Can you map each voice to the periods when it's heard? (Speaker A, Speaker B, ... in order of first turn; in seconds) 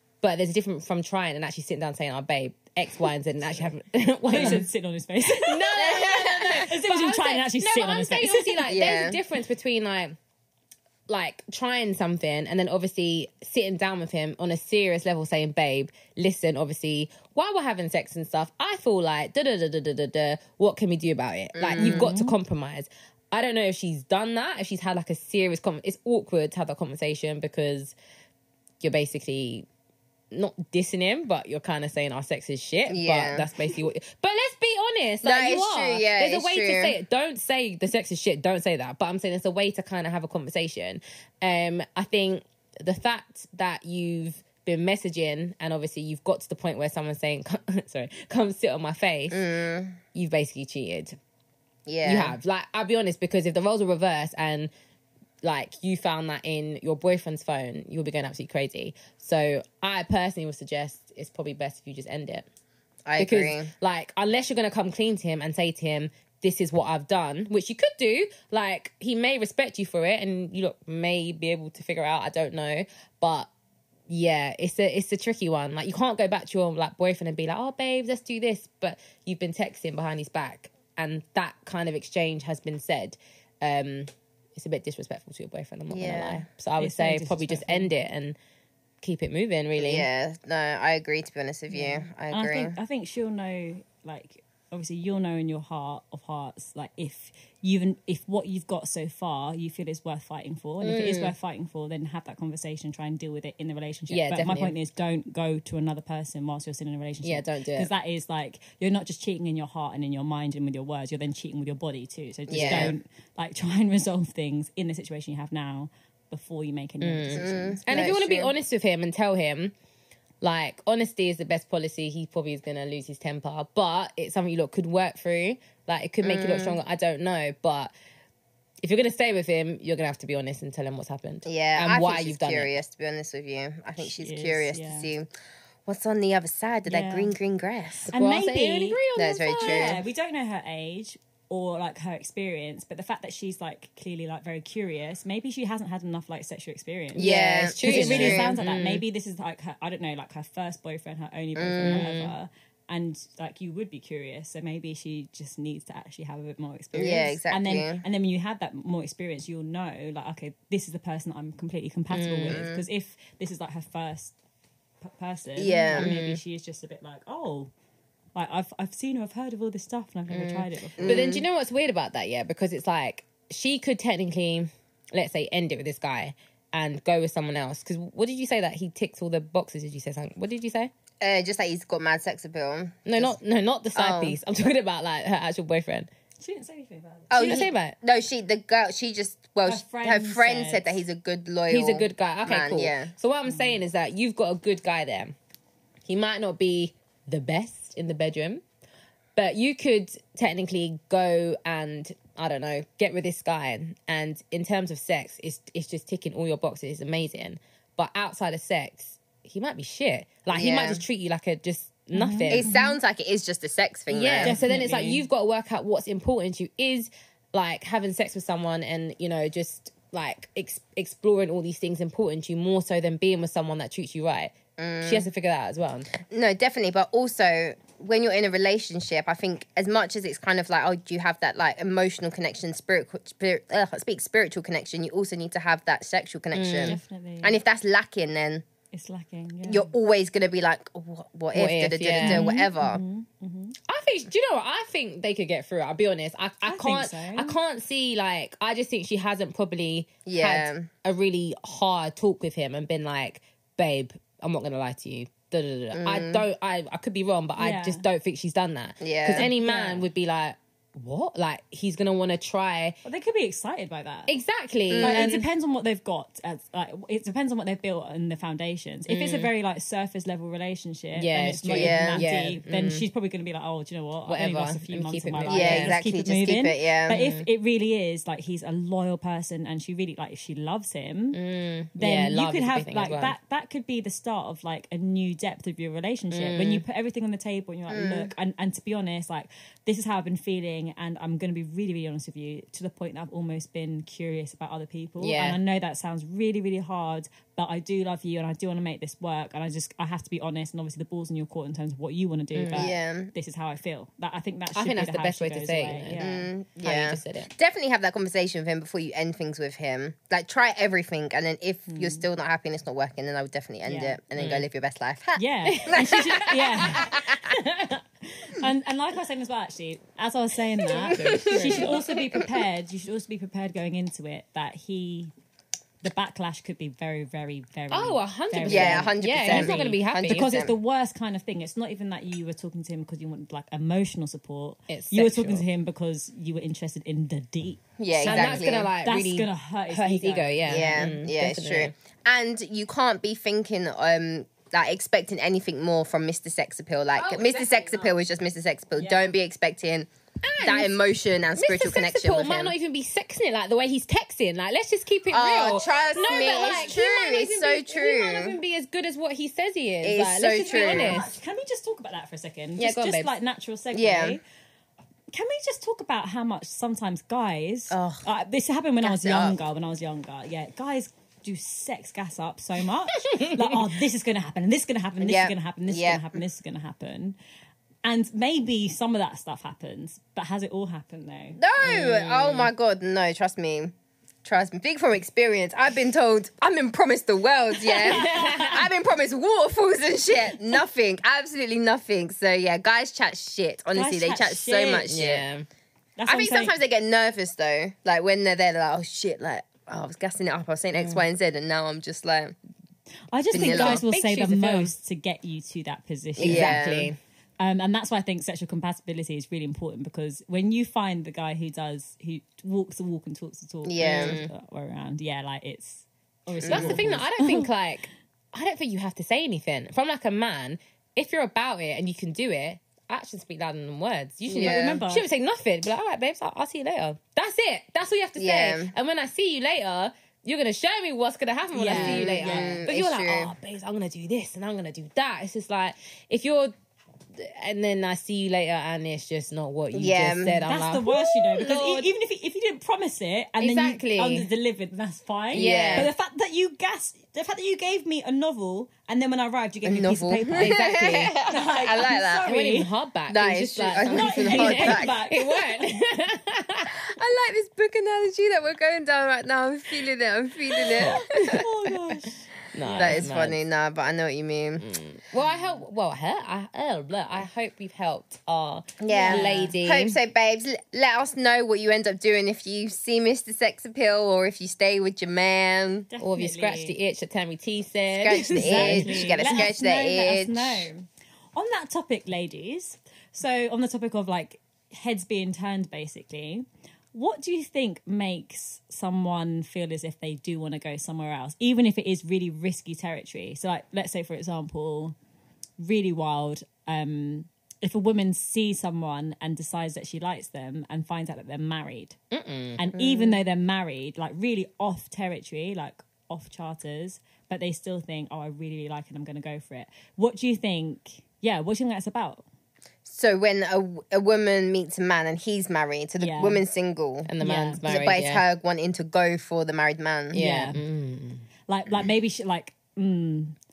Speaker A: 0.2-4.7, 5.4-10.2, 11.1-27.9, 28.8-29.7, 30.3-49.5, 50.1-51.2, 52.0-54.7, 55.4-62.5, 63.2-73.5, 74.1-88.4, 89.0-90.1, 100.8-101.3, 104.1-104.8, 107.2-107.9, 112.5-112.9, 117.0-119.7, 120.4-127.9, 128.8-132.7, 138.1-140.0, 147.1-149.0, 162.1-162.7, 165.9-166.4, 170.3-180.9, 183.1-186.1, 187.3-187.9, 191.7-195.4, 196.1-198.6, 199.4-212.7, 214.1-226.1, 236.5-237.0, 241.5-242.5, 243.9-263.0, 264.3-265.5, 269.1-269.5, 271.1-273.1, 274.3-276.0, 277.1-277.5, 281.3-283.4, 286.3-286.8, 295.2-295.6, 302.5-302.9, 304.8-306.2, 306.8-307.5, 314.4-314.6, 315.7-318.0, 321.0-322.0, 327.9-330.6, 334.9-335.6, 338.2-341.9, 347.2-348.1, 350.4-350.9, 351.6-361.3, 362.8-363.3, 373.2-373.8, 381.8-382.7, 388.0-388.8, 395.1-395.7, 400.9-401.2, 403.6-404.9, 406.4-407.2, 414.0-414.5, 416.6-436.7, 437.3-442.1, 443.6-444.5, 445.5-446.1, 450.6-451.4, 452.4-456.9, 460.8-461.6, 462.7-463.6, 464.8-470.2, 476.2-479.7, 502.3-503.4, 517.3-518.4, 520.3-521.5
Speaker B: 4.3-8.7, 21.8-22.4, 86.8-87.9, 91.7-117.8, 134.0-135.1, 136.9-137.3, 138.1-139.0, 139.6-164.3, 165.0-167.7, 168.4-171.3, 186.4-187.6, 189.7-190.9, 193.5-193.8, 212.1-213.0, 214.4-215.2, 236.8-237.6, 238.9-239.9, 242.2-243.8, 246.6-247.6, 257.6-258.0, 259.3-260.1, 263.1-264.3, 265.0-281.4, 282.0-306.5, 311.9-312.2, 313.9-314.2, 315.4-325.3, 326.0-341.1, 349.0-349.3, 356.1-356.9, 360.7-364.4, 365.3-377.4, 378.0-381.6, 387.9-388.8, 393.9-395.1, 396.2-396.8, 403.3-406.9, 407.6-417.7, 424.5-425.3, 431.7-432.8, 440.6-452.9, 454.1-455.6, 461.0-463.3, 469.1-469.8, 476.1-477.0, 478.5-495.2, 495.8-502.2, 502.8-512.4, 516.2-516.6, 517.4-517.9, 520.3-520.8, 521.7-523.6
Speaker C: 5.8-6.7, 8.7-9.2, 21.6-22.1, 32.9-33.5, 35.2-37.0, 49.3-50.0, 51.9-52.4, 63.1-63.7, 85.9-86.5, 89.8-92.8, 112.5-112.9, 117.3-118.5, 126.2-126.8, 131.5-135.3, 135.9-138.1, 139.2-140.0, 147.2-148.5, 151.6-152.3, 156.9-158.0, 162.5-162.8, 165.6-166.1, 171.0-171.4, 181.2-183.3, 183.9-184.4, 187.3-193.1, 210.5-211.0, 212.5-214.6, 224.8-225.3, 226.3-238.6, 239.7-243.0, 250.3-250.9, 255.9-256.4, 259.0-259.5, 264.9-265.4, 271.7-272.3, 275.5-277.2, 287.9-288.3, 302.7-303.3, 306.2-317.3, 321.1-321.9, 328.6-330.8, 338.0-338.9, 340.7-350.1, 350.6-352.8, 355.3-358.6, 360.0-361.2, 363.9-364.4, 367.9-368.2, 369.0-369.6, 375.2-376.4, 381.6-383.9, 384.4-395.5, 396.3-402.6, 403.5-404.0, 406.4-407.1, 413.9-414.4, 416.6-417.1, 424.5-424.8, 428.4-428.9, 431.9-433.5, 439.9-440.6, 445.5-446.1, 449.9-452.4, 453.3-455.2, 457.1-461.6, 462.9-464.8, 469.0-476.1, 478.1-480.9, 513.0-517.3, 517.9-520.4